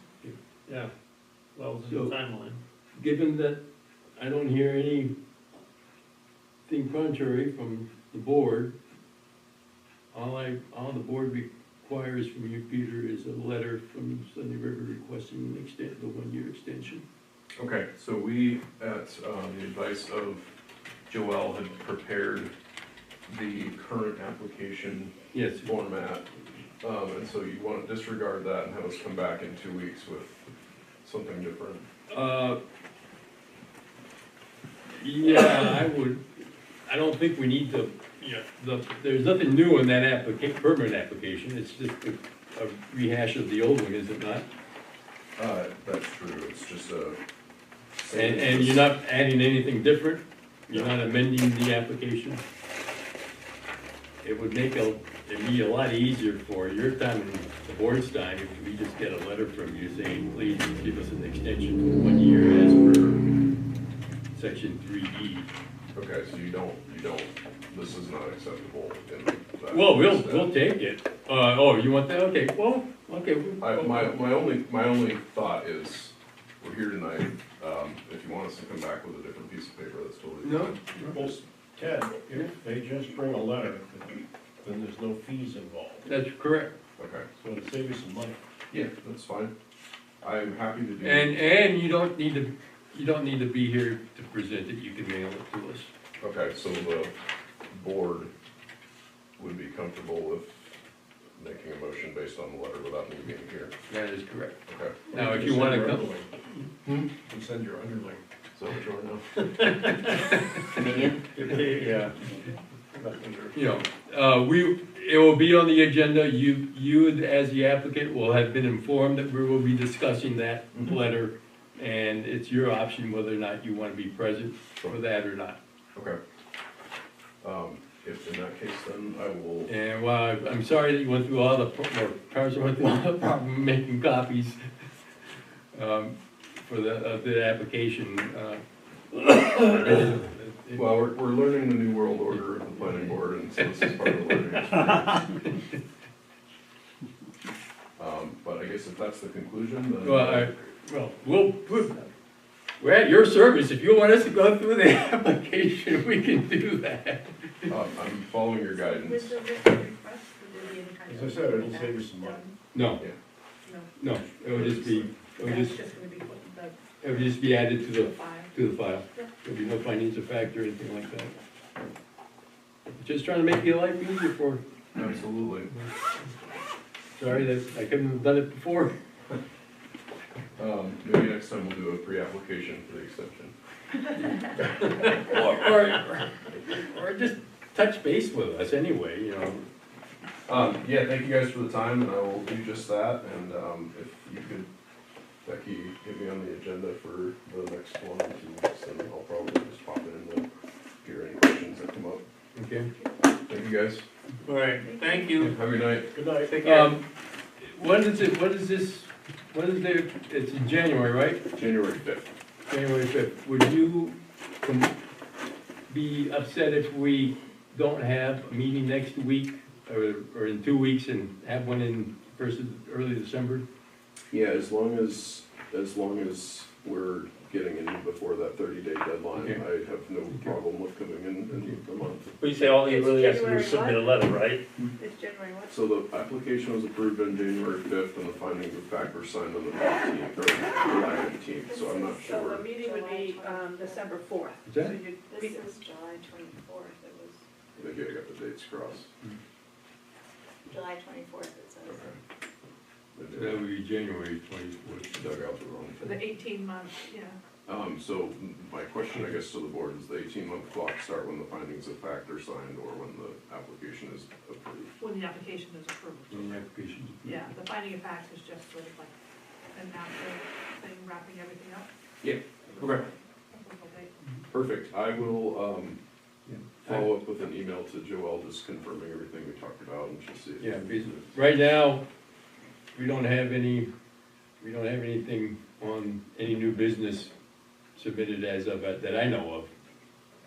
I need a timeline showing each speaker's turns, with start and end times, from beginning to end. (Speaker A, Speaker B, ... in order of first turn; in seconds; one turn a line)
Speaker A: 1.5-2.6
Speaker B: 1.8-2.1
Speaker B: 2.9-3.6
Speaker B: 4.2-5.1
Speaker B: 6.7-8.7
Speaker B: 10.1-17.1
Speaker C: 17.6-20.5
Speaker C: 21.1-22.5
Speaker C: 23.3-26.3
Speaker B: 25.3-25.7
Speaker C: 26.8-30.5
Speaker C: 31.0-31.8
Speaker B: 32.1-32.6
Speaker B: 35.0-44.5
Speaker C: 45.4-47.2
Speaker C: 48.0-48.9
Speaker B: 48.1-52.4
Speaker C: 50.7-51.0
Speaker B: 54.2-63.2
Speaker B: 64.3-65.5
Speaker C: 65.9-70.5
Speaker B: 69.7-74.2
Speaker C: 73.6-81.3
Speaker B: 80.4-81.2
Speaker D: 81.1-86.1
Speaker B: 86.0-86.8
Speaker C: 87.0-87.2
Speaker D: 87.4-88.4
Speaker C: 88.7-89.5
Speaker C: 90.2-91.4
Speaker B: 91.0-95.9
Speaker C: 96.2-97.1
Speaker C: 97.7-98.3
Speaker C: 99.4-100.8
Speaker C: 101.4-103.8
Speaker B: 103.9-106.1
Speaker C: 104.7-105.0
Speaker D: 105.1-106.3
Speaker D: 107.1-108.2
Speaker C: 108.5-109.3
Speaker A: 111.3-112.1
Speaker D: 111.8-112.1
Speaker A: 112.9-113.5
Speaker B: 113.5-125.6
Speaker C: 127.4-129.7
Speaker B: 129.7-134.6
Speaker B: 135.7-138.6
Speaker B: 139.1-141.0
Speaker C: 140.7-145.4
Speaker C: 148.0-150.7
Speaker B: 150.0-152.1
Speaker B: 152.8-157.7
Speaker C: 157.7-159.4
Speaker E: 159.2-162.6
Speaker D: 161.1-162.4
Speaker B: 162.7-163.0
Speaker E: 163.6-163.9
Speaker B: 164.0-165.8
Speaker C: 164.5-165.1
Speaker E: 165.4-166.8
Speaker B: 167.0-171.3
Speaker E: 167.5-168.5
Speaker B: 173.0-174.6
Speaker C: 174.9-175.7
Speaker B: 177.2-178.9
Speaker C: 180.6-183.5
Speaker B: 184.7-189.7
Speaker C: 190.5-194.7
Speaker C: 195.4-200.5
Speaker C: 201.0-202.2
Speaker B: 202.5-202.9
Speaker C: 203.5-204.1
Speaker A: 204.5-205.5
Speaker F: 204.8-205.2
Speaker C: 205.4-206.9
Speaker D: 206.1-206.5
Speaker B: 206.6-207.0
Speaker B: 207.6-211.4
Speaker C: 211.5-212.3
Speaker B: 212.7-214.9
Speaker B: 215.9-223.7
Speaker C: 224.3-232.3
Speaker B: 229.4-229.6
Speaker B: 230.3-230.5
Speaker A: 232.4-234.7
Speaker E: 232.9-234.1
Speaker E: 235.0-235.7
Speaker C: 235.7-242.7
Speaker F: 241.7-244.1
Speaker E: 242.2-245.7
Speaker B: 244.7-245.0
Speaker F: 245.2-247.4
Speaker C: 247.8-249.1
Speaker F: 250.6-252.0
Speaker C: 251.8-252.2
Speaker C: 253.1-253.7
Speaker B: 253.3-255.3
Speaker C: 255.1-256.2
Speaker E: 256.0-257.4
Speaker C: 257.6-264.9
Speaker E: 265.0-266.6
Speaker B: 266.3-267.5
Speaker E: 267.2-269.1
Speaker E: 269.7-271.9
Speaker C: 272.2-273.1
Speaker E: 272.9-274.1
Speaker C: 274.5-276.0
Speaker B: 276.5-277.1
Speaker C: 276.8-281.4
Speaker B: 280.6-282.1
Speaker B: 282.9-283.9
Speaker B: 284.6-287.3
Speaker B: 287.9-289.7